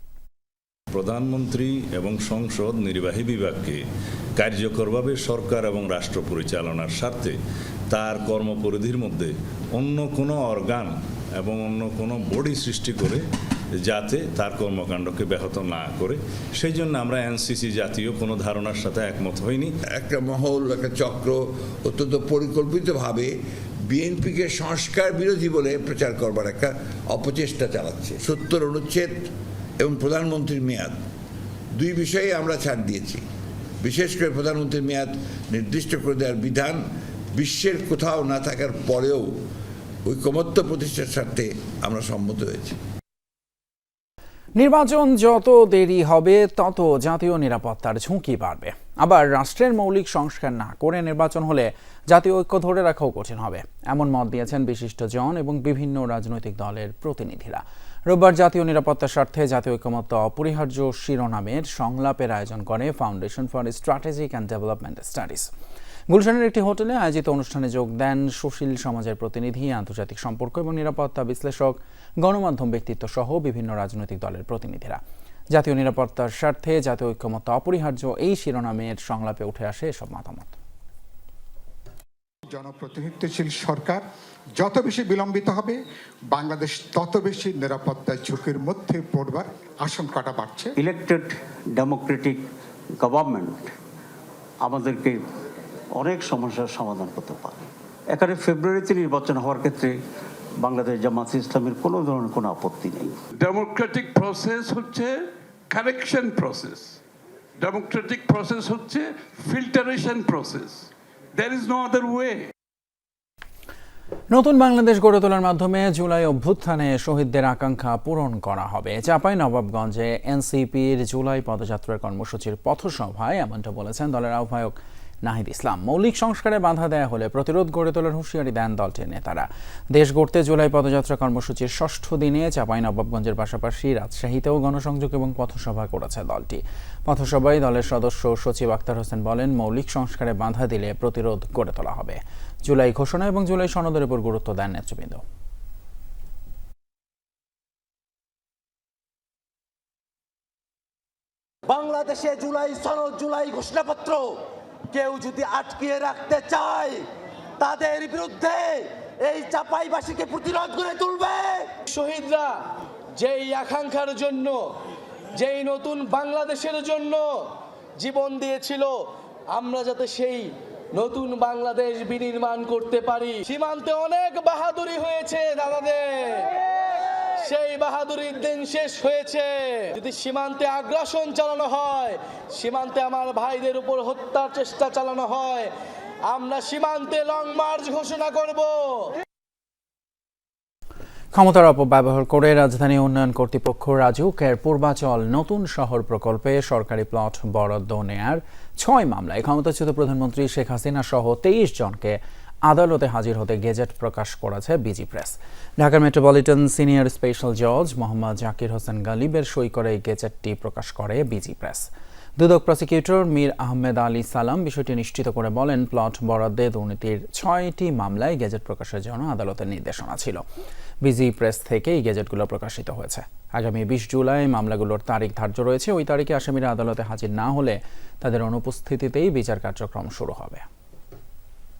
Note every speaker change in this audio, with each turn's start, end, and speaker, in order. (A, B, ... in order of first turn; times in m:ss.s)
0:00.9-0:03.8 A
0:04.4-0:07.4 A
0:07.9-0:13.2 A
0:13.8-0:19.7 A
0:19.9-0:23.3 B
0:23.9-0:31.0 B
0:31.7-0:33.2 B
0:33.8-0:36.8 B
0:37.3-0:39.3 B
0:40.0-0:42.8 B
0:44.6-1:05.5 C
1:06.1-1:20.6 C
1:22.5-1:24.0 D
1:24.6-1:25.8 D
1:26.3-1:30.7 D
1:30.8-1:32.4 E
1:33.0-1:33.7 E
1:34.6-1:35.2 E
1:36.0-1:40.0 E
1:40.6-1:43.1 E
1:43.4-1:47.0 F
1:47.6-1:52.5 F
1:54.3-2:25.2 C
2:31.7-2:34.2 G
2:34.9-2:37.0 G
2:37.6-2:41.6 G
2:41.9-2:42.6 H
2:43.2-2:44.8 H
2:45.4-2:56.7 H
2:57.4-3:05.7 H
3:06.3-3:09.1 H
3:11.3-3:31.9 C
3:32.4-3:40.4 C
3:41.0-3:50.6 C